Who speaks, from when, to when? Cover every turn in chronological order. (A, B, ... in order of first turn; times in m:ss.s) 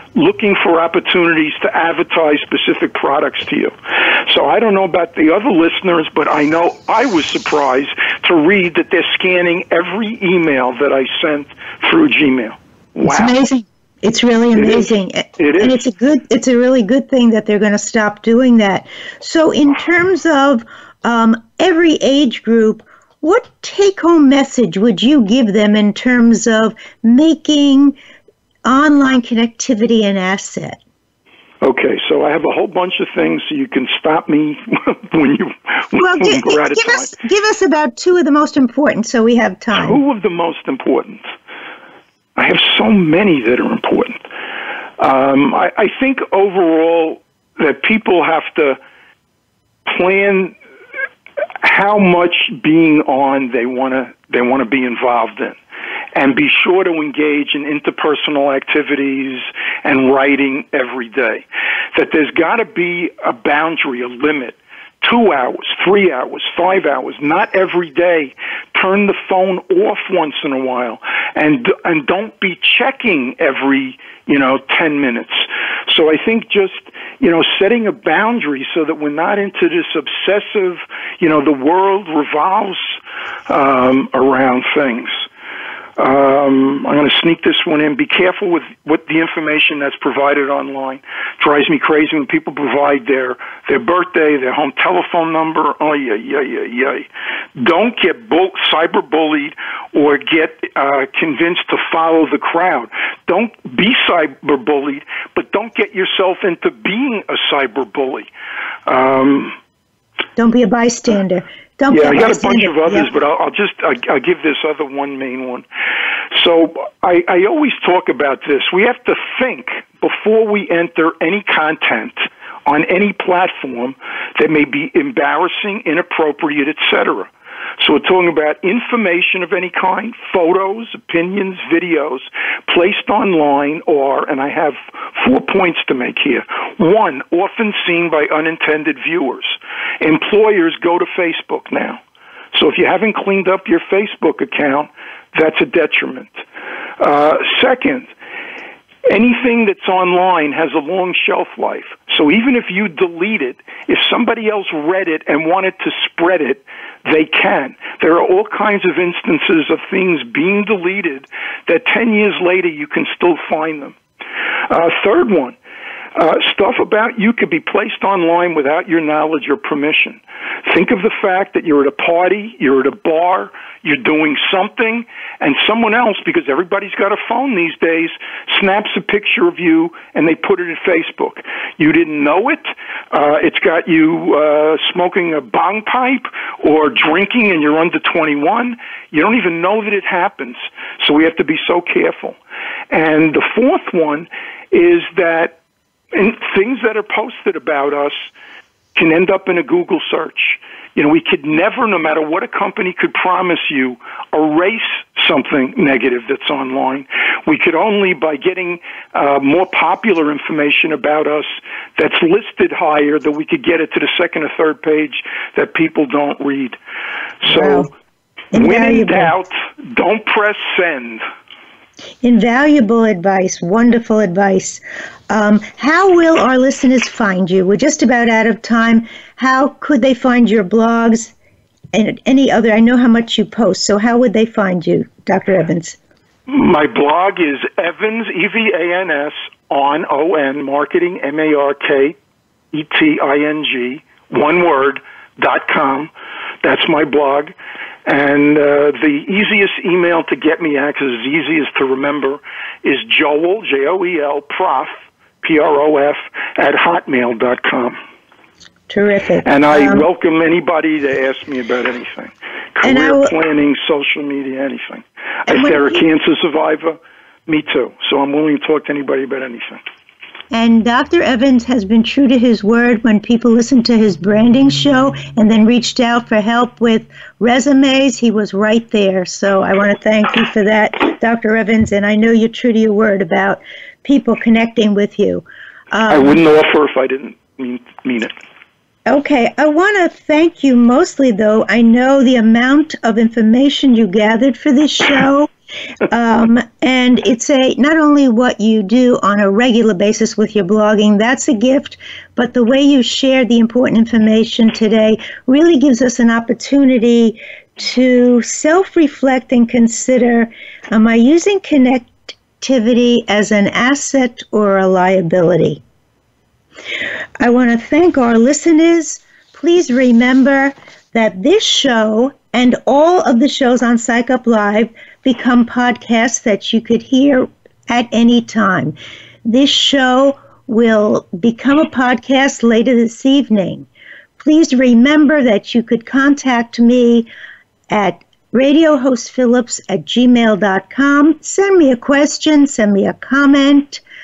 0:00.1-0:13.4 A
0:13.0-0:27.9 B
0:14.5-0:15.8 A
0:28.6-0:30.8 B
0:31.6-0:37.1 A
0:36.0-0:40.0 B
0:39.7-0:41.2 A
0:42.4-0:44.2 A
0:45.0-0:48.8 A
0:49.8-0:50.5 A
0:51.6-0:55.6 A
0:56.1-1:23.0 A
1:23.5-1:25.1 A
1:26.0-1:48.3 A
1:48.8-1:49.6 A
1:50.4-1:53.1 B
1:51.9-1:55.6 A
1:56.3-2:22.0 A
2:22.5-2:26.4 A
2:27.0-2:28.1 A
2:29.1-2:44.0 A
2:44.7-2:45.6 A
2:46.1-3:12.4 A
3:12.9-3:15.6 A
3:16.1-3:18.3 A
3:18.9-3:36.8 A
3:37.4-3:37.9 A
3:37.5-3:37.9 B
3:38.5-3:39.3 B
3:38.5-3:41.2 A
3:42.2-3:51.3 B
3:51.9-3:56.0 B
3:56.5-4:02.2 A
4:02.7-4:18.0 A
4:18.9-4:20.1 B
4:19.4-4:29.8 A
4:22.8-4:23.3 B
4:25.5-4:26.0 B
4:30.5-4:46.4 B
4:46.1-4:48.4 A
4:49.1-4:55.5 B
4:56.1-5:15.8 B
5:17.4-5:33.9 B
5:34.4-5:37.3 B
5:37.9-5:44.0 B